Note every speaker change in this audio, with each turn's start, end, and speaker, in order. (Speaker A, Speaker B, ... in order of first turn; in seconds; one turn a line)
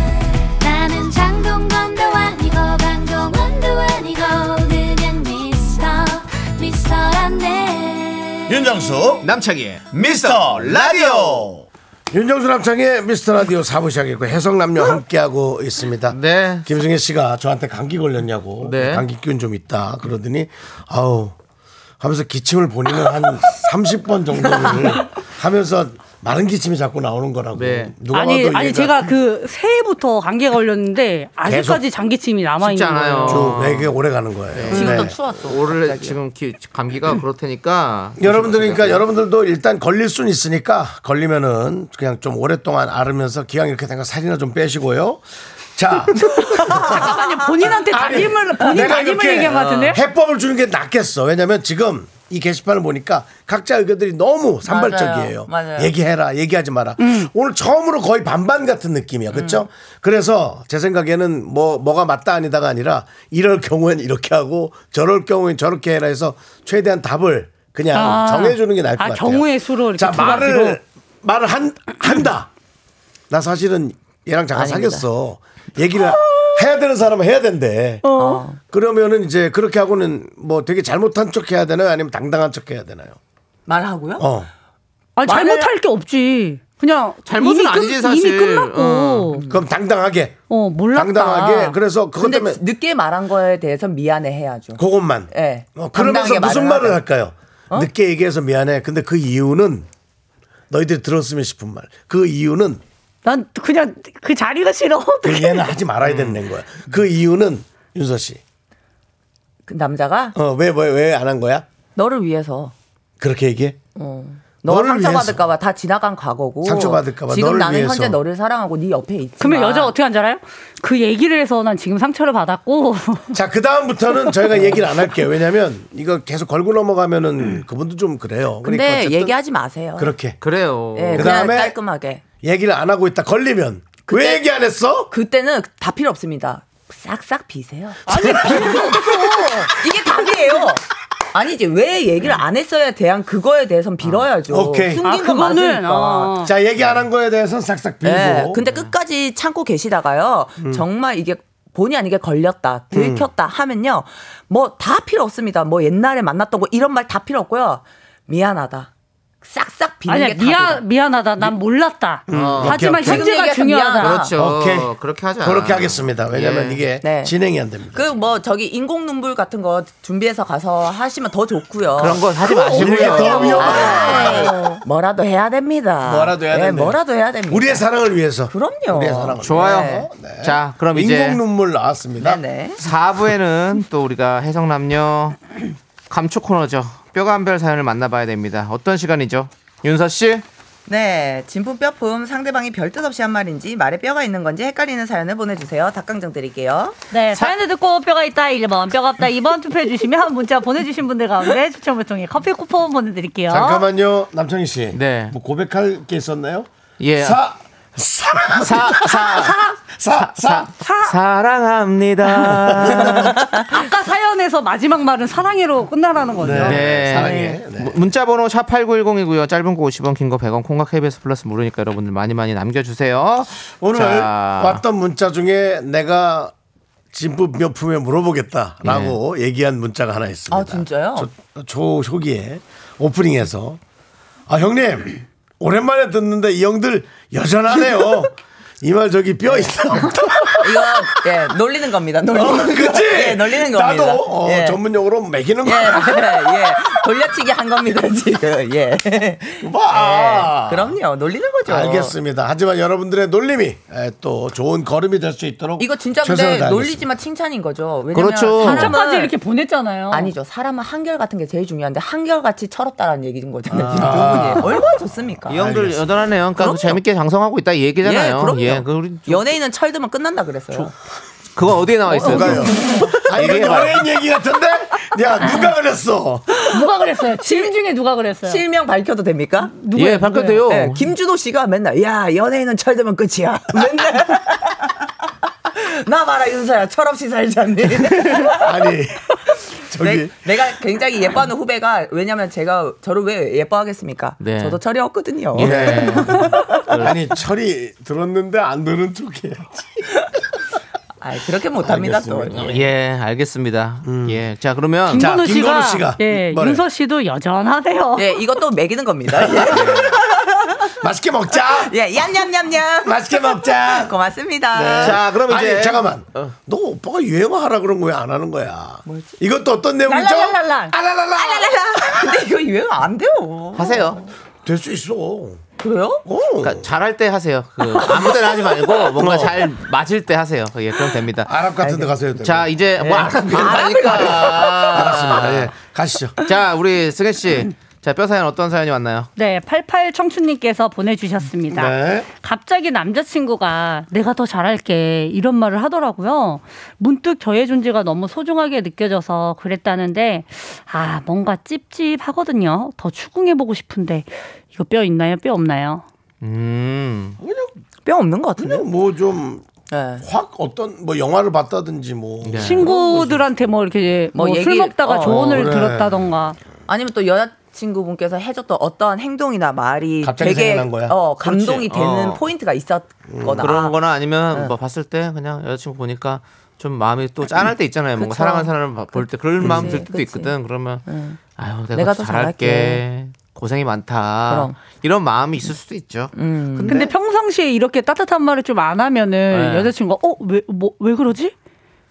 Speaker A: 0.6-8.6
Speaker B: 8.5-9.3
Speaker C: 9.2-11.5
Speaker B: 9.9-21.4
Speaker C: 16.1-16.8
Speaker C: 18.6-19.1
Speaker B: 22.0-29.1
Speaker D: 24.5-25.0
Speaker C: 27.6-27.9
Speaker E: 28.1-33.6
Speaker B: 31.4-31.8
Speaker C: 32.6-34.0
Speaker B: 33.3-35.2
Speaker C: 34.5-39.0
Speaker D: 34.7-36.2
Speaker B: 38.2-45.2
Speaker B: 45.8-72.5
Speaker E: 46.3-50.0
Speaker C: 49.5-49.9
Speaker D: 54.6-55.9
Speaker E: 57.0-57.3
Speaker D: 59.3-59.6
Speaker E: 67.9-70.8
Speaker B: 73.3-78.0
Speaker D: 74.5-75.1
Speaker E: 78.0-78.4
Speaker D: 78.2-78.6
Speaker B: 78.7-83.2
Speaker D: 83.7-84.3
Speaker B: 84.2-84.5
Speaker E: 85.2-89.4
Speaker D: 85.2-85.7
Speaker C: 87.2-89.3
Speaker D: 89.3-89.7
Speaker B: 89.5-90.4
Speaker E: 90.5-91.8
Speaker B: 90.9-92.6
Speaker D: 92.2-97.0
Speaker B: 94.8-99.9
Speaker B: 100.7-102.8
Speaker E: 103.2-105.7
Speaker B: 105.2-108.4
Speaker C: 106.0-106.4
Speaker D: 109.7-110.4
Speaker B: 110.3-111.7
Speaker D: 112.0-112.7
Speaker B: 113.2-113.8
Speaker D: 114.0-119.9
Speaker B: 114.7-115.4
Speaker B: 116.6-118.2
Speaker E: 119.4-123.4
Speaker B: 123.3-129.3
Speaker D: 124.5-124.8
Speaker D: 128.6-130.1
Speaker B: 130.0-130.4
Speaker C: 130.4-131.4
Speaker D: 130.9-132.2
Speaker B: 131.1-131.8
Speaker B: 132.4-135.1
Speaker D: 134.1-134.4
Speaker D: 135.1-146.4
Speaker E: 138.1-140.3
Speaker B: 138.1-138.8
Speaker B: 144.5-145.0
Speaker E: 145.0-146.5
Speaker B: 146.4-148.6
Speaker D: 148.0-158.9
Speaker C: 148.6-148.9
Speaker B: 152.9-153.3
Speaker D: 159.4-160.8
Speaker E: 160.1-164.2
Speaker B: 162.3-163.3
Speaker C: 162.3-162.9
Speaker D: 162.9-164.3
Speaker C: 164.0-166.8
Speaker B: 164.3-168.2
Speaker D: 167.0-167.3
Speaker D: 167.9-177.8
Speaker C: 172.0-174.3
Speaker B: 172.7-174.5
Speaker B: 176.0-177.0
Speaker B: 177.5-182.4
Speaker D: 178.5-180.1
Speaker C: 179.4-181.4
Speaker D: 182.2-182.8
Speaker C: 182.8-185.4
Speaker C: 186.1-190.4
Speaker D: 190.9-197.0
Speaker E: 197.1-203.9
Speaker B: 203.5-210.7
Speaker C: 204.9-205.3
Speaker C: 207.0-207.4
Speaker C: 208.6-209.6
Speaker E: 209.3-209.8
Speaker C: 210.2-213.3
Speaker E: 210.7-211.2
Speaker E: 212.3-217.0
Speaker D: 213.3-213.7
Speaker B: 216.4-218.0
Speaker C: 216.5-224.8
Speaker B: 223.8-226.5
Speaker B: 227.1-233.8
Speaker C: 228.8-229.2
Speaker D: 230.5-231.3
Speaker B: 234.5-241.0
Speaker D: 239.5-244.8
Speaker B: 242.3-246.9
Speaker D: 245.6-252.2
Speaker B: 249.6-251.0
Speaker B: 251.7-257.1
Speaker D: 255.8-259.3
Speaker C: 258.1-259.0
Speaker E: 258.6-260.3
Speaker D: 260.1-265.6
Speaker B: 263.7-264.9
Speaker C: 265.5-269.5
Speaker B: 265.5-266.0
Speaker D: 266.6-267.0
Speaker D: 268.0-270.9
Speaker C: 271.6-274.0
Speaker E: 272.2-273.0
Speaker B: 272.2-276.6
Speaker D: 272.6-273.1
Speaker E: 275.4-275.7
Speaker E: 276.7-278.6
Speaker D: 277.4-277.7
Speaker D: 278.4-279.8
Speaker E: 279.7-280.6
Speaker C: 279.9-281.1
Speaker D: 280.6-284.9
Speaker D: 285.7-288.9
Speaker B: 288.5-290.4
Speaker D: 289.9-296.8
Speaker C: 294.4-294.8
Speaker C: 295.5-297.1
Speaker B: 295.6-300.1
Speaker D: 301.2-302.8
Speaker B: 301.8-302.8
Speaker C: 302.6-305.3
Speaker B: 304.0-304.4
Speaker E: 305.1-308.4
Speaker B: 305.1-306.8
Speaker D: 308.2-310.9
Speaker B: 309.4-310.1
Speaker B: 311.0-312.0
Speaker D: 311.6-315.2
Speaker B: 313.0-314.1
Speaker B: 314.7-322.1
Speaker C: 315.0-316.5
Speaker D: 319.1-319.4
Speaker D: 320.1-320.8
Speaker E: 320.1-320.8
Speaker D: 321.3-324.3
Speaker C: 323.8-324.2
Speaker B: 324.6-325.6
Speaker D: 325.8-326.2
Speaker B: 326.2-326.9
Speaker C: 326.6-331.5
Speaker B: 329.2-329.7
Speaker B: 331.4-336.4
Speaker D: 331.8-332.1
Speaker C: 332.4-335.7
Speaker D: 333.0-335.1
Speaker C: 336.4-339.3
Speaker E: 339.4-356.1
Speaker B: 341.7-342.3
Speaker C: 356.4-357.4
Speaker B: 357.4-357.7
Speaker D: 358.1-358.9
Speaker B: 358.6-359.7
Speaker D: 359.9-360.3
Speaker B: 360.2-363.5
Speaker C: 362.4-362.9
Speaker E: 362.6-366.6
Speaker D: 364.3-365.7
Speaker B: 365.2-366.3
Speaker D: 366.9-374.0
Speaker B: 370.2-371.2
Speaker C: 371.4-372.4
Speaker B: 373.3-373.7
Speaker C: 373.6-381.0
Speaker D: 378.2-380.5
Speaker B: 379.6-380.0
Speaker D: 381.1-381.4
Speaker C: 381.6-387.1
Speaker D: 381.9-383.0
Speaker D: 384.5-384.8
Speaker D: 386.3-387.1
Speaker E: 386.9-391.5
Speaker C: 389.5-389.9